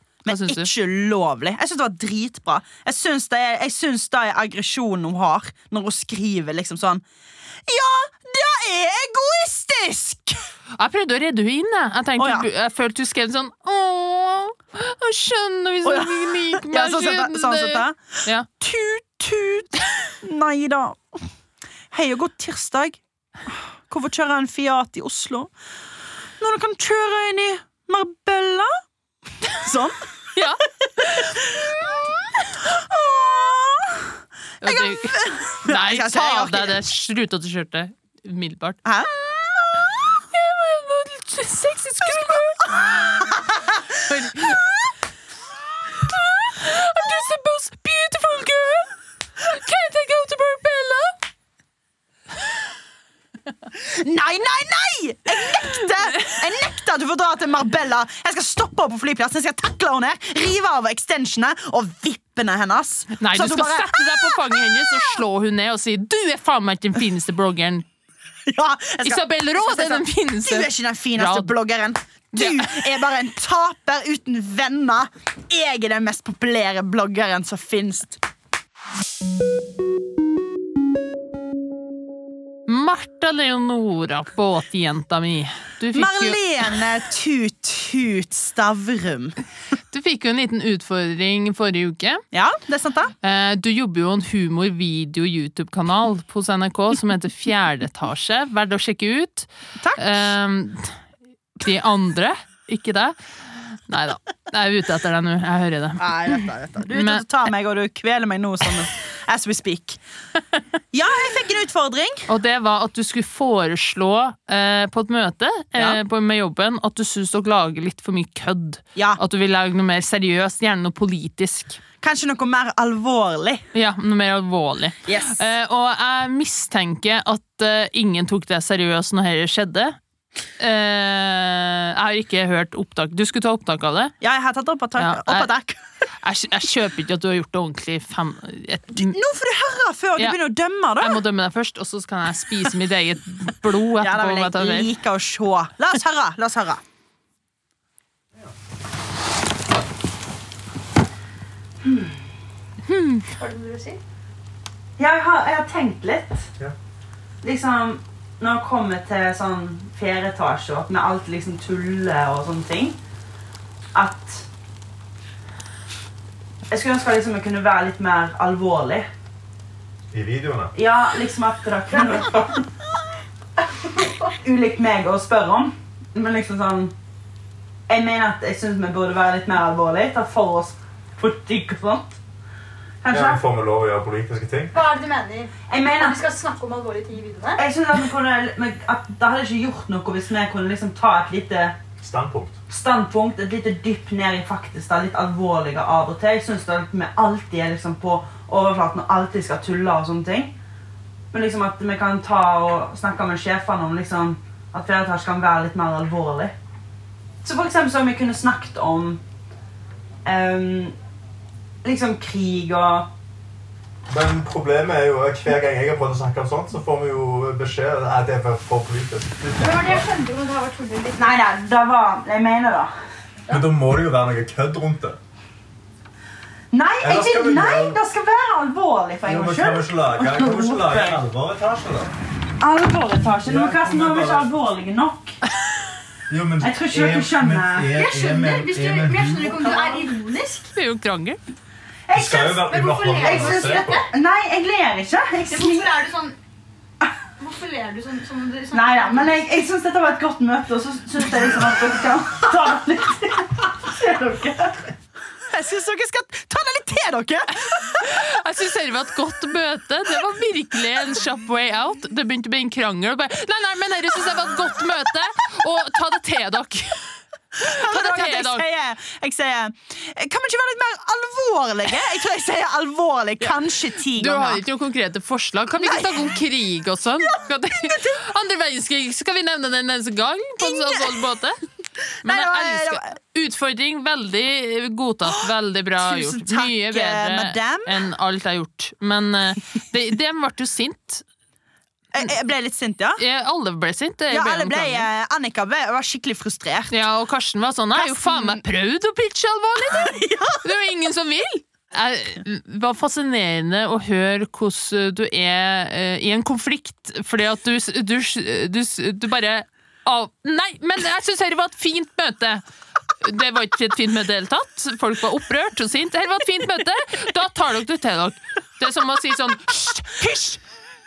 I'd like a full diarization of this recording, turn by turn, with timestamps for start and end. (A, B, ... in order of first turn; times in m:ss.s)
0:00.2-0:07.0 A
0:00.3-0:00.7 B
0:07.7-0:10.4 A
0:10.8-0:18.5 B
0:12.2-0:12.5 A
0:15.8-0:21.3 A
0:21.9-0:25.5 A
0:26.4-0:28.7 A
0:29.6-0:30.0 A
0:30.3-0:31.4 B
0:31.1-0:31.8 A
0:32.5-0:36.8 A
0:34.6-0:38.8 B
0:38.8-0:39.1 A
0:40.2-0:43.3 B
0:42.9-0:43.8 A
0:43.9-0:44.8 B
0:46.0-0:51.2 B
0:53.7-1:05.2 A
1:03.2-1:07.8 B
1:08.4-1:18.2 A
1:09.0-1:11.5 B
1:12.3-1:12.9 B
1:22.7-1:26.4 B
1:25.9-1:29.4 A
1:29.9-1:32.2 B
1:32.3-1:33.1 A
1:33.2-1:40.9 B
1:39.8-1:40.1 A
1:41.6-1:43.1 B
1:43.9-1:46.4 B
1:46.0-1:50.0 A
1:46.9-1:47.2 B
1:50.9-1:52.3 A
1:52.3-2:01.8 B
2:02.0-2:03.6 A
2:03.7-2:10.0 B
2:05.0-2:05.4 A
2:10.6-2:14.1 B
2:14.2-2:15.8 A
2:15.0-2:15.5 B
2:16.2-2:19.2 B
2:18.9-2:21.2 A
2:21.0-2:24.9 B
2:24.0-2:26.8 A
2:31.8-2:32.3 A
2:32.9-2:33.2 B
2:33.4-2:34.0 C
2:35.0-2:36.5 A
2:37.4-2:43.0 A
2:43.9-2:44.5 A
2:46.7-2:49.0 A
2:50.1-2:50.7 D
2:50.7-2:52.6 A
2:53.8-2:56.9 A
2:57.9-3:02.2 A
3:03.0-3:03.4 A
3:03.1-3:04.7 D
3:04.7-3:07.6 C
3:05.7-3:06.2 A
3:07.6-3:11.8 A
3:12.0-3:12.6 D
3:12.7-3:20.5 A
3:21.3-3:26.5 A
3:27.4-3:29.2 A
3:30.2-3:30.9 A
3:31.8-3:33.1 A
3:34.1-3:40.1 D
3:39.6-3:41.3 C
3:41.2-3:42.9 A
3:43.5-3:45.2 D
3:46.7-3:51.2 A
3:47.0-3:48.0 D
3:49.2-3:52.1 D
3:52.6-3:55.4 A
3:53.4-3:54.5 D
3:56.3-3:59.8 D
3:56.6-3:58.1 A
3:57.9-4:00.7 C
3:59.6-4:00.1 A
4:00.7-4:01.4 B
4:02.1-4:05.9 A
4:02.1-4:04.0 D
4:02.7-4:04.0 C
4:05.5-4:06.3 C
4:07.4-4:09.6 C
4:08.7-4:15.0 A
4:15.5-4:18.1 A
4:17.9-4:27.0 B
4:27.6-4:28.6 B
4:27.6-4:34.6 A
4:34.1-4:41.6 B
4:35.8-4:36.2 A
4:37.8-4:38.2 A
4:40.6-4:41.2 A
4:42.2-4:43.1 A
4:42.2-4:51.2 B
4:46.0-4:48.0 A
4:52.1-4:53.2 A
4:53.2-4:55.1 B
4:54.3-4:57.0 A
4:56.9-5:12.6 B
4:57.9-4:58.6 A
4:59.9-5:00.6 A
5:13.2-5:20.6 B